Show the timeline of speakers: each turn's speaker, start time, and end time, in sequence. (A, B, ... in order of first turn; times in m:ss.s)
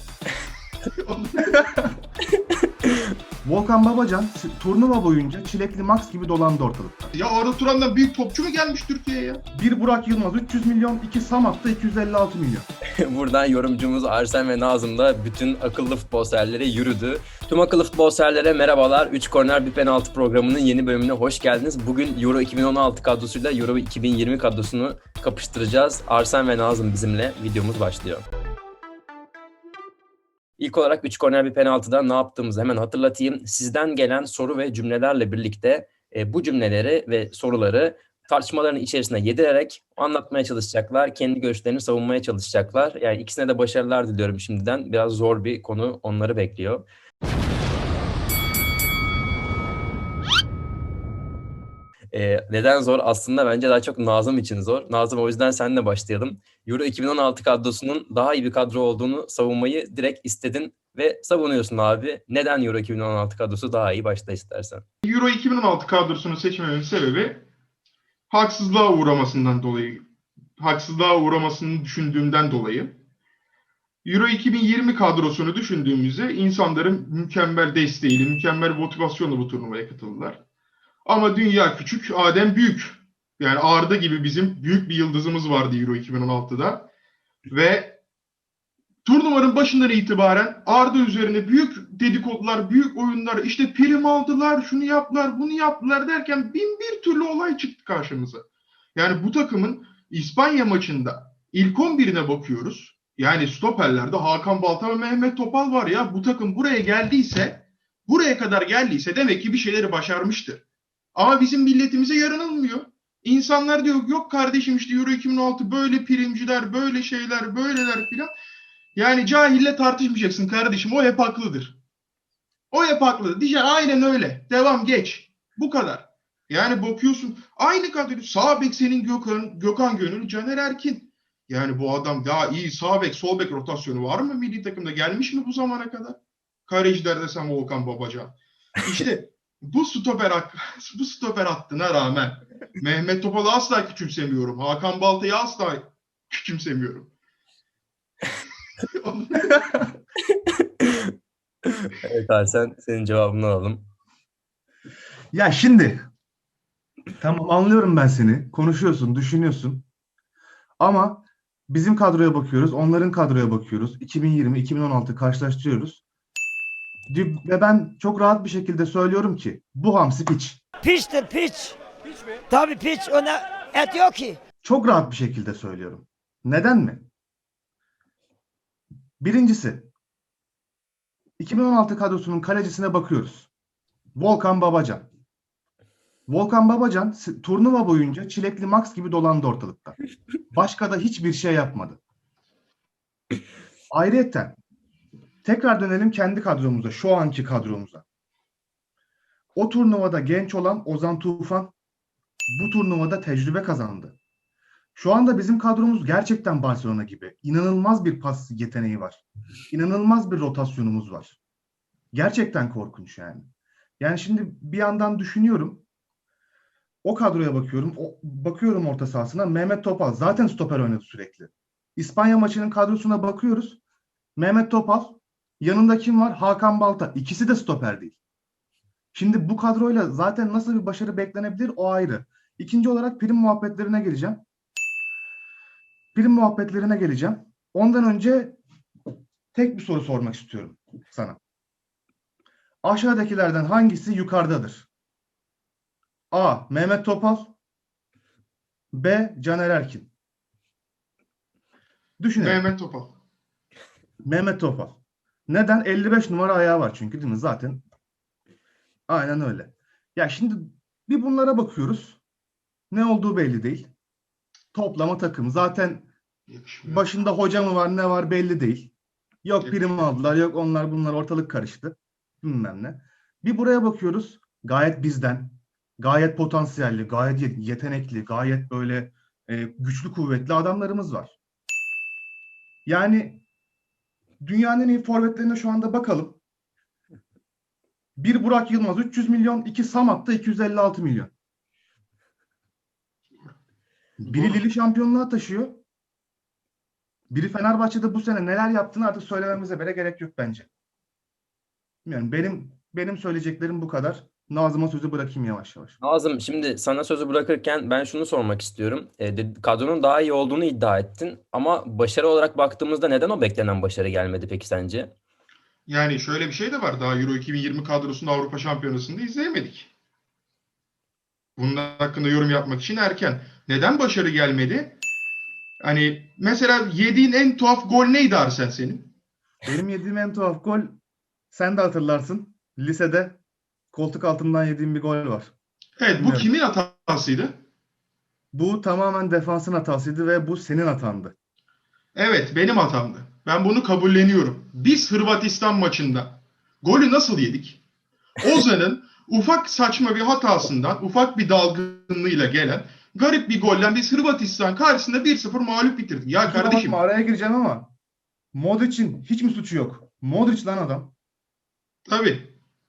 0:00.9-0:01.5 A
0:02.4-0:03.1 B
0:03.4-0:07.1 C
0:07.2-0:09.4 A
0:09.5-0:12.7 C
0:13.0-0:28.2 B
0:30.6-0:46.8 B
0:52.1-1:04.8 B
1:05.0-1:07.4 A
1:08.3-1:10.0 A
1:10.6-1:13.0 A
1:14.0-1:20.4 A
1:21.0-1:26.9 A
1:27.5-1:28.0 A
1:29.0-1:50.6 A
1:51.2-1:58.3 A
1:59.0-2:01.8 A
2:02.7-2:27.1 A
2:28.9-2:29.6 A
2:29.4-2:29.8 C
2:30.5-2:31.1 B
2:31.7-2:33.9 B
2:35.3-2:36.1 C
2:37.2-2:39.9 C
2:40.8-2:46.0 C
2:47.1-2:50.6 C
2:50.8-2:51.8 D
2:52.5-2:54.4 D
2:54.6-2:57.0 C
2:59.2-2:59.9 C
3:01.4-3:03.5 C
3:04.2-3:05.1 C
3:06.3-3:10.0 C
3:10.5-3:12.0 C
3:13.9-3:14.6 C
3:15.4-3:18.0 C
3:19.6-3:21.7 C
3:22.5-3:24.2 C
3:25.0-3:31.4 C
3:32.1-3:33.5 C
3:34.0-3:35.8 C
3:37.0-3:43.8 C
3:44.4-3:48.2 C
3:49.1-3:54.4 C
3:56.2-3:58.6 C
3:59.5-4:01.4 C
4:02.8-4:04.9 C
4:06.3-4:07.6 C
4:08.9-4:10.1 C
4:12.2-4:12.7 C
4:12.4-4:13.2 A
4:14.2-4:17.8 C
4:19.1-4:22.2 C
4:22.9-4:23.9 C
4:24.7-4:26.1 C
4:26.5-4:27.1 A
4:26.9-4:28.9 C
4:29.4-4:41.4 C
4:29.6-4:30.1 A
4:42.9-4:43.4 C
4:44.4-4:46.4 C
4:48.2-4:51.3 C
4:54.2-4:55.8 C
4:54.3-4:54.6 A
4:57.3-5:00.7 C
5:02.0-5:06.0 C
5:06.0-5:15.1 B
5:15.9-5:19.9 A
5:21.6-5:25.0 A
5:25.8-5:29.1 A
5:29.6-5:31.0 C
5:31.5-5:33.4 C
5:33.9-5:35.5 C
5:36.0-5:37.6 A
5:36.2-5:36.5 C
5:38.5-5:41.3 C
5:42.2-5:47.8 A
5:48.4-5:57.0 A
5:56.4-5:57.9 C
5:58.5-6:01.1 C
6:02.1-6:02.5 A